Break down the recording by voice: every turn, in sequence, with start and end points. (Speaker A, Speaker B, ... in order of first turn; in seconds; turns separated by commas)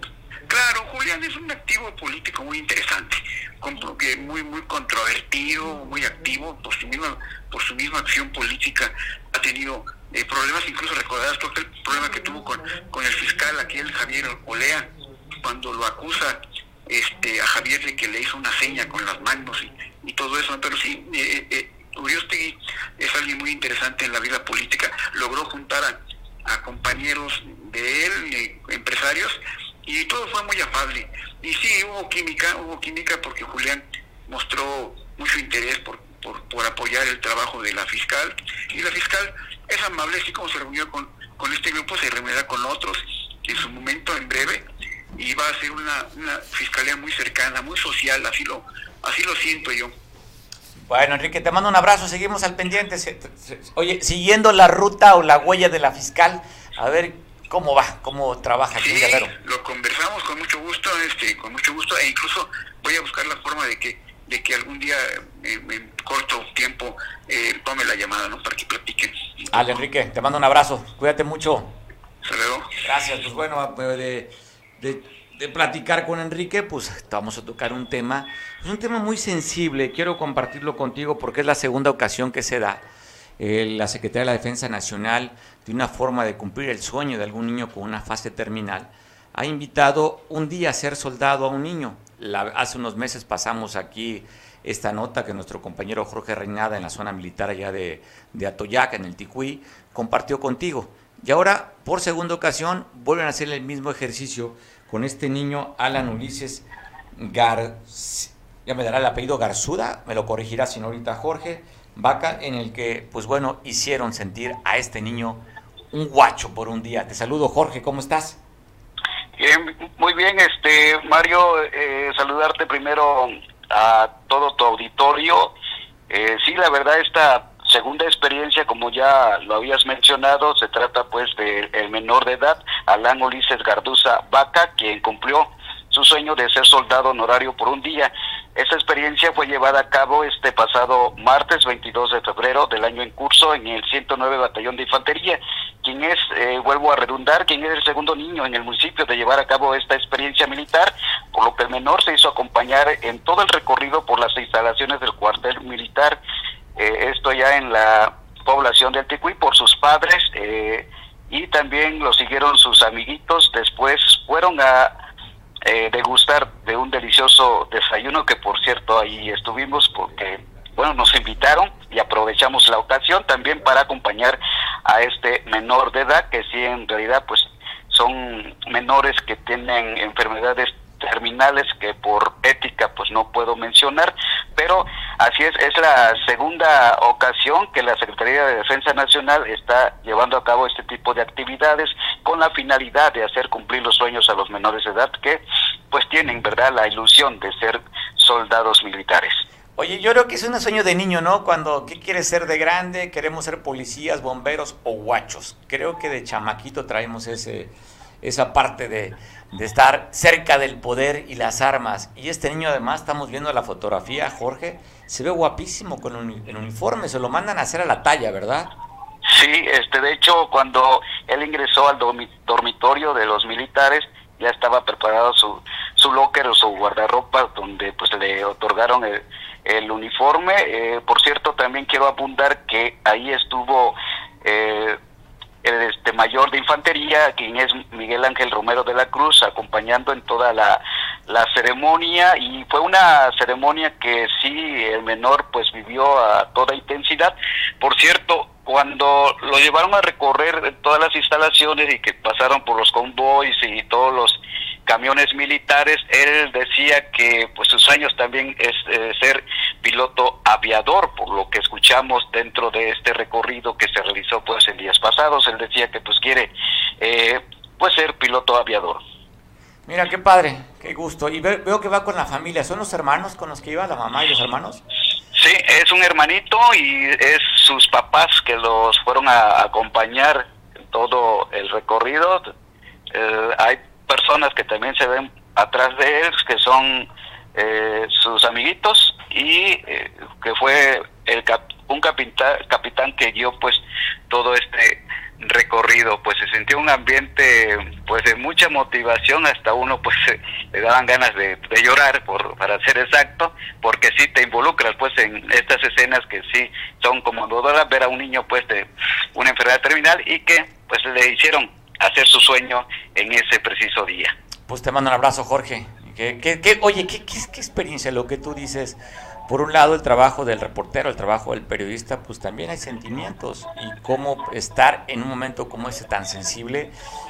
Speaker A: 0.5-49.9, Speaker B: 50.8-59.3, Speaker A: 58.8-69.1, Speaker B: 69.5-71.8, Speaker A: 72.2-72.7, Speaker B: 72.8-82.8, Speaker B: 83.4-118.4, Speaker C: 119.4-125.5, Speaker C: 126.1-156.2, Speaker C: 156.8-165.0, Speaker C: 165.6-199.4, Speaker B: 199.8-218.7, Speaker C: 219.3-235.0, Speaker C: 235.6-269.0, Speaker B: 269.9-274.8, Speaker C: 275.3-282.5, Speaker C: 283.1-314.3, Speaker B: 314.7-326.9